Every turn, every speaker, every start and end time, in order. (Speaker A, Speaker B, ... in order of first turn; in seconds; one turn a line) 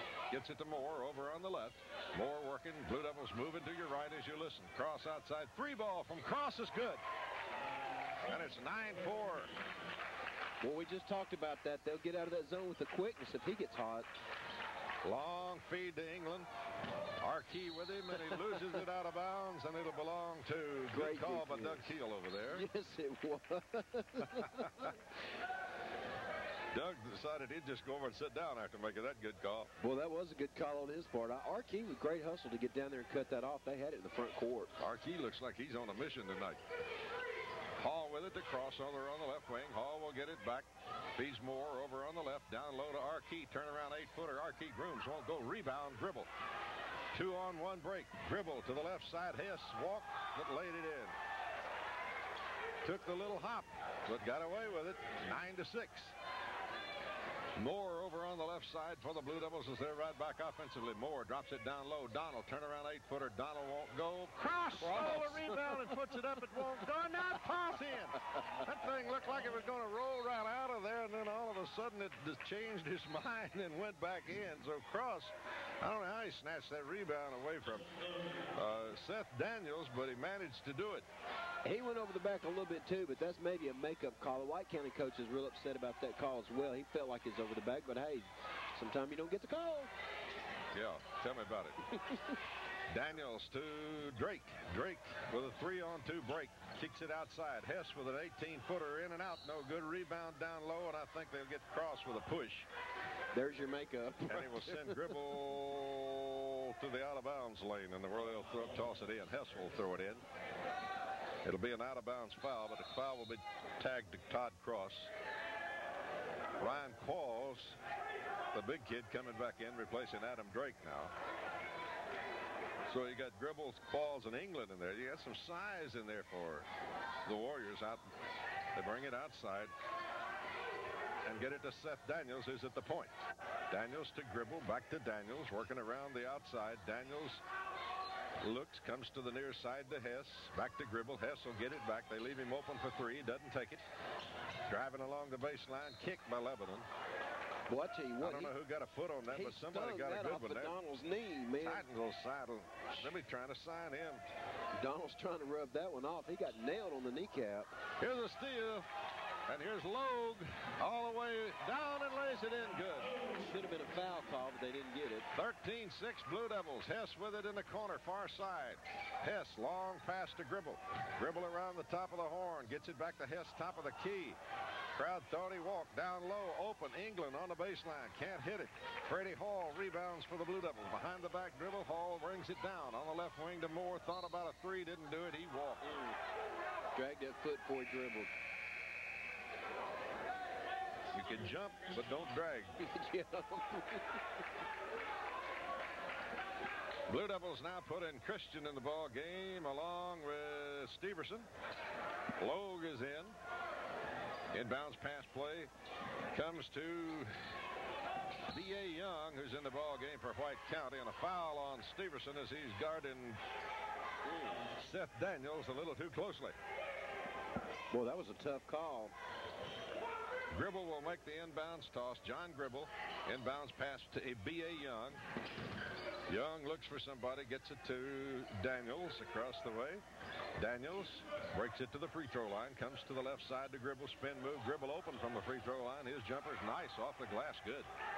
Speaker A: 0.3-7.0
Speaker A: 8.2-9.5
Speaker B: 10.6-14.1
Speaker A: 15.0-16.5
Speaker A: 17.2-22.7
Speaker B: 18.3-18.6
Speaker B: 20.9-21.9
Speaker B: 22.5-25.0
Speaker A: 26.7-29.7
Speaker B: 29.8-34.7
Speaker A: 34.8-36.6
Speaker A: 37.8-46.3
Speaker A: 47.1-51.1
Speaker A: 52.8-56.1
Speaker A: 57.5-77.9
Speaker B: 64.8-66.7
Speaker A: 78.5-81.0
Speaker B: 81.6-89.9
Speaker A: 90.7-92.0
Speaker A: 92.9-102.7
Speaker B: 103.3-105.2
Speaker A: 104.3-110.2
Speaker A: 111.4-115.1
Speaker A: 116.6-117.8
Speaker A: 118.5-121.1
Speaker A: 122.9-126.7
Speaker A: 127.2-128.0
Speaker A: 128.7-129.7
Speaker A: 131.2-133.1
Speaker A: 133.7-137.4
Speaker A: 138.4-143.8
Speaker A: 144.7-146.8
Speaker B: 147.7-148.5
Speaker A: 148.2-150.8
Speaker B: 149.3-151.9
Speaker A: 151.6-154.2
Speaker B: 154.8-157.7
Speaker A: 158.0-158.8
Speaker A: 159.5-163.1
Speaker B: 163.4-165.3
Speaker A: 165.3-174.4
Speaker A: 174.9-185.8
Speaker B: 185.8-186.2
Speaker B: 186.9-188.3
Speaker A: 191.1-192.8
Speaker B: 192.8-194.2
Speaker A: 197.1-201.5
Speaker A: 202.4-203.3
Speaker A: 204.5-205.7
Speaker A: 206.3-207.3
Speaker A: 208.5-213.4
Speaker A: 214.8-216.6
Speaker B: 217.9-219.1
Speaker A: 220.5-225.2
Speaker A: 226.3-230.0
Speaker A: 230.6-237.9